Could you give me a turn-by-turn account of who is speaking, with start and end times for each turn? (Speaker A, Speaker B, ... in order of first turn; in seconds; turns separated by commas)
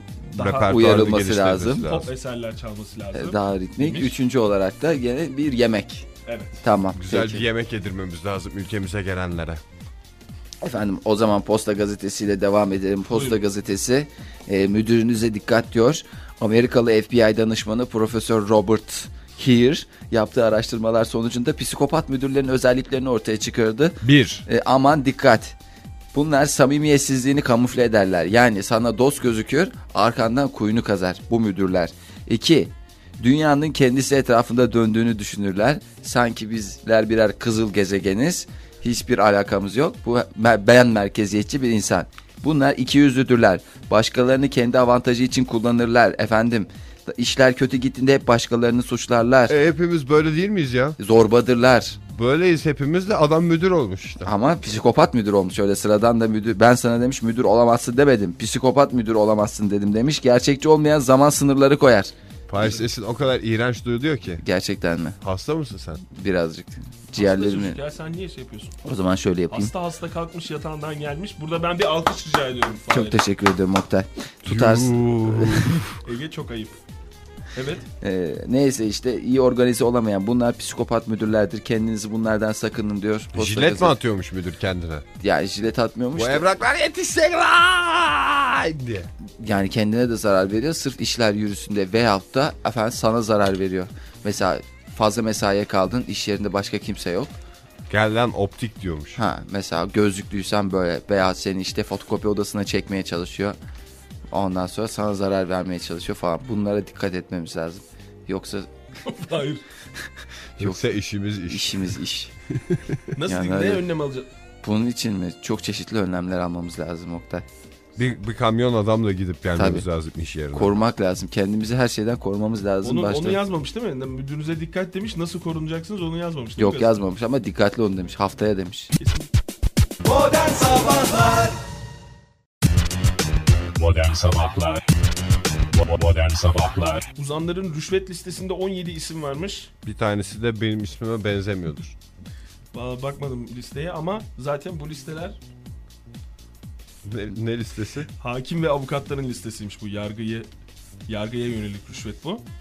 Speaker A: 0.3-1.9, Speaker B: 0.3-2.1, Speaker C: 0.3-0.9, Speaker C: 1.6-4.2, Speaker A: 3.1-6.1, Speaker C: 6.2-6.6, Speaker A: 6.6-7.5, Speaker B: 6.9-9.6, Speaker A: 10.6-25.6, Speaker C: 13.1-13.4, Speaker B: 24.0-24.4, Speaker A: 26.1-49.5, Speaker B: 49.5-51.0, Speaker A: 51.0-52.0, Speaker B: 52.0-54.3, Speaker A: 54.2-62.1, Speaker B: 62.5-64.4, Speaker A: 64.4-65.2, Speaker B: 65.2-66.0, Speaker A: 66.1-67.8, Speaker C: 67.1-68.8, Speaker A: 68.8-69.7, Speaker C: 69.5-73.2, Speaker A: 72.9-75.8, Speaker B: 74.5-76.0, Speaker C: 76.0-76.8, Speaker C: 77.5-77.8, Speaker A: 78.0-83.9, Speaker B: 83.3-85.0, Speaker A: 85.2-86.5, Speaker B: 86.1-89.1, Speaker A: 89.4-97.3, Speaker B: 97.9-99.2, Speaker A: 99.2-103.6, Speaker A: 104.3-108.7, Speaker C: 109.0-109.6, Speaker B: 110.6-112.0, Speaker A: 111.5-112.3, Speaker B: 112.7-113.0, Speaker C: 113.1-114.3, Speaker A: 113.2-113.8, Speaker A: 114.6-117.4, Speaker B: 118.0-120.7, Speaker A: 119.5-119.8, Speaker A: 120.5-123.4, Speaker C: 122.8-127.0, Speaker A: 126.6-128.9, Speaker C: 129.0-129.3, Speaker C: 130.1-131.5, Speaker D: 133.7-137.1, Speaker C: 137.2-139.7, Speaker B: 139.8-141.9, Speaker C: 142.7-145.4, Speaker B: 147.0-148.1, Speaker C: 148.2-150.5, Speaker C: 151.1-152.4